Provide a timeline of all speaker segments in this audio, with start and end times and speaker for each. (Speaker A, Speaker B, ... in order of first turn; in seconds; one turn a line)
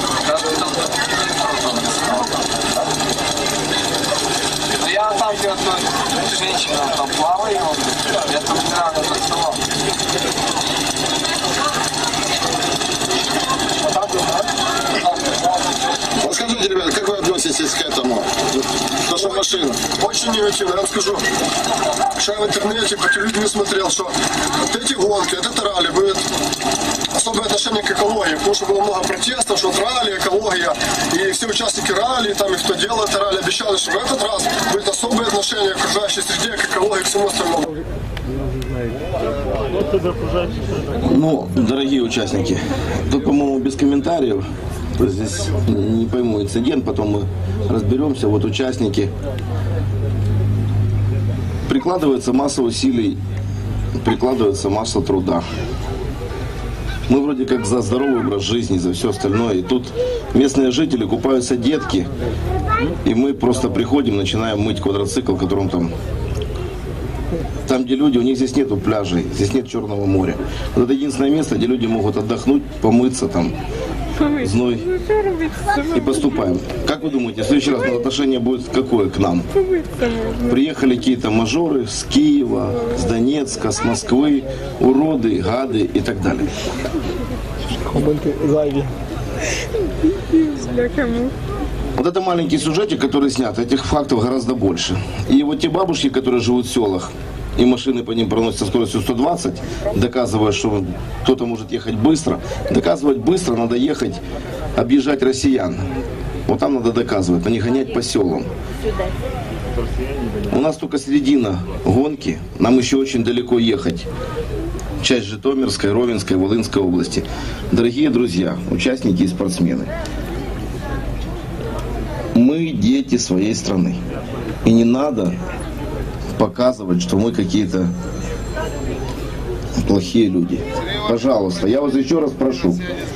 Speaker A: 0.2-2.9
Speaker A: 4.7-9.6
Speaker A: 13.8-15.6
Speaker B: 16.1-16.9
Speaker C: 16.4-18.6
Speaker B: 19.1-21.3
Speaker B: 22.1-26.3
Speaker B: 27.1-37.7
Speaker D: 40.0-40.4
Speaker E: 40.9-49.1
Speaker E: 51.7-53.2
Speaker E: 53.9-55.5
Speaker E: 57.1-62.1
Speaker E: 63.0-65.9
Speaker E: 67.7-73.6
Speaker E: 74.2-79.5
Speaker E: 80.1-86.5
Speaker D: 87.9-88.9
Speaker D: 90.6-91.2
Speaker E: 92.0-104.2
Speaker E: 104.8-105.9
Speaker E: 106.5-108.5
Speaker E: 110.5-114.1
Speaker E: 115.0-119.9
Speaker E: 122.3-124.0
Speaker E: 124.6-125.4
Speaker E: 126.4-127.9
Speaker E: 129.8-132.9